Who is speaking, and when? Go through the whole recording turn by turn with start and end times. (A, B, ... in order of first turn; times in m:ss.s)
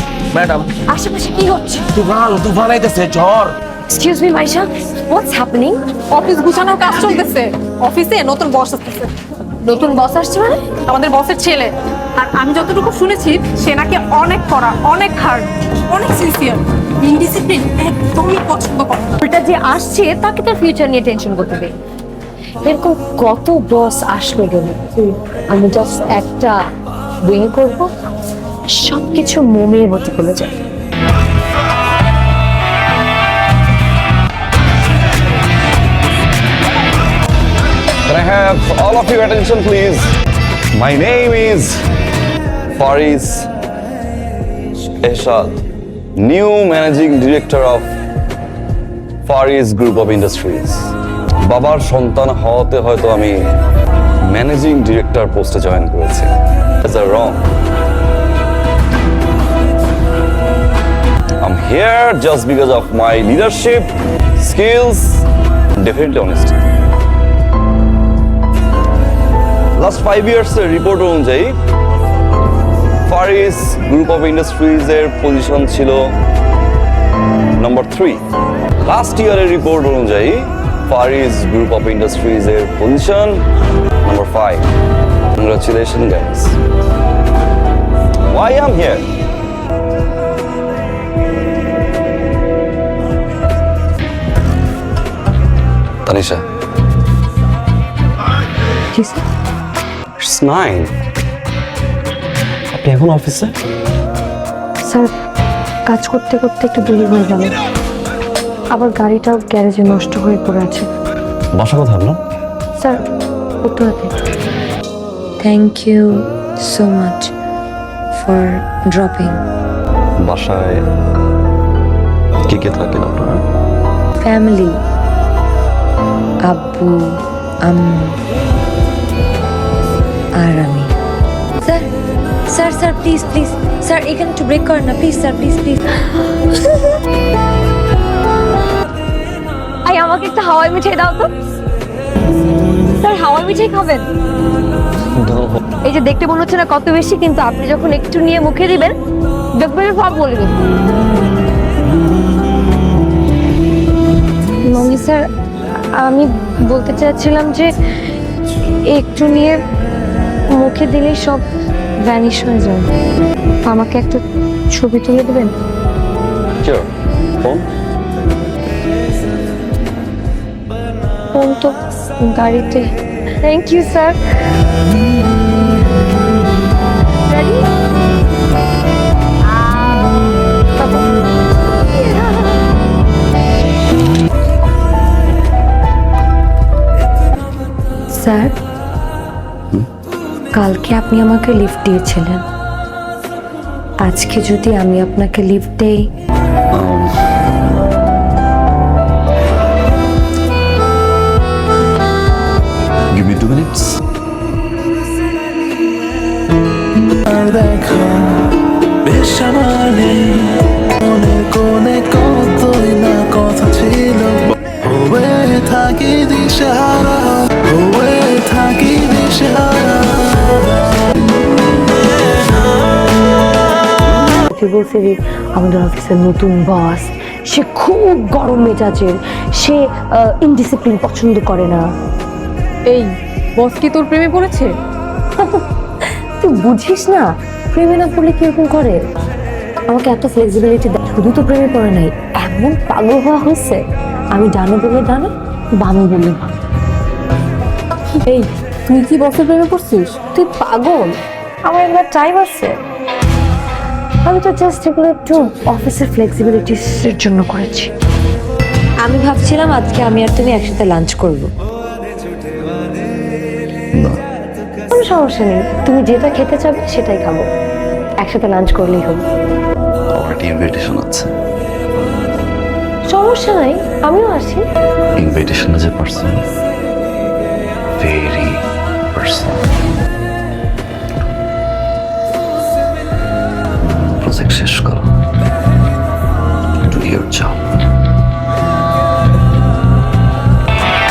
0:00.3-0:00.7 A
0:00.9-0:01.9 B
0:01.9-0:03.6 A
0:03.9-0:05.8 B
0:06.1-0:09.1 C
0:09.6-0:10.7 B
0:10.8-0:19.2 C
0:19.2-0:21.7 B
0:22.6-0:26.6 B
0:27.3-0:27.9 B
0:28.7-0:30.5 B
0:38.1-0:40.1 D
0:40.8-0:41.8 D
0:42.8-0:43.5 D
0:45.0-0:45.6 D
0:46.2-0:47.9 D
0:49.3-0:50.9 D
0:51.4-0:53.4 D
0:54.3-0:57.4 D
1:01.4-1:05.2 D
1:05.8-1:06.6 D
1:09.8-1:11.6 D
1:13.1-1:16.1 D
1:17.6-1:18.2 D
1:18.8-1:23.4 D
1:24.0-1:24.7 D
1:25.4-1:26.6 D
1:28.3-1:29.0 D
1:36.1-1:36.4 D
1:38.9-1:39.2 B
1:40.2-1:40.9 D
1:42.7-1:43.5 D
1:44.8-1:45.1 B
1:45.9-1:47.6 B
1:48.7-1:50.9 B
1:51.5-1:52.2 D
1:52.8-1:53.0 B
1:53.6-1:54.1 B
1:55.4-1:57.3 B
1:58.1-1:59.4 B
2:00.2-2:00.8 D
2:02.5-2:03.4 D
2:04.2-2:04.8 B
2:06.4-2:08.2 B
2:10.4-2:10.9 B
2:11.6-2:11.9 B
2:12.5-2:16.4 B
2:19.8-2:21.3 B
2:23.0-2:24.1 B
2:25.1-2:25.6 D
2:25.8-2:29.0 B
2:29.6-2:30.6 B
2:34.7-2:35.2 B
2:36.0-2:37.7 B
2:38.9-2:39.6 B
2:40.5-2:41.4 B
2:42.0-2:42.9 B
2:43.7-2:45.6 B
2:51.3-2:52.9 B
2:53.4-2:54.2 B
2:57.3-2:57.7 B
3:00.8-3:01.0 B
3:02.0-3:02.4 B
3:08.1-3:08.6 B
3:10.5-3:12.4 B
3:14.0-3:16.1 B
3:16.7-3:17.1 D
3:23.1-3:24.0 D
3:27.2-3:28.5 E
3:29.0-3:40.6 E
3:44.5-3:51.9 B
3:52.9-3:54.7 C
3:55.4-3:55.6 B
3:56.4-3:59.0 B
3:59.9-4:03.8 B
4:04.3-4:06.5 B
4:08.3-4:10.2 C
4:10.3-4:12.8 B
4:14.2-4:17.9 B
4:19.0-4:21.5 B
4:24.9-4:27.4 B
4:28.2-4:29.2 B
4:30.2-4:31.3 D
4:33.1-4:34.6 B
4:35.2-4:36.4 D
4:38.0-4:39.6 D
4:43.8-4:45.1 D
4:46.8-4:47.8 D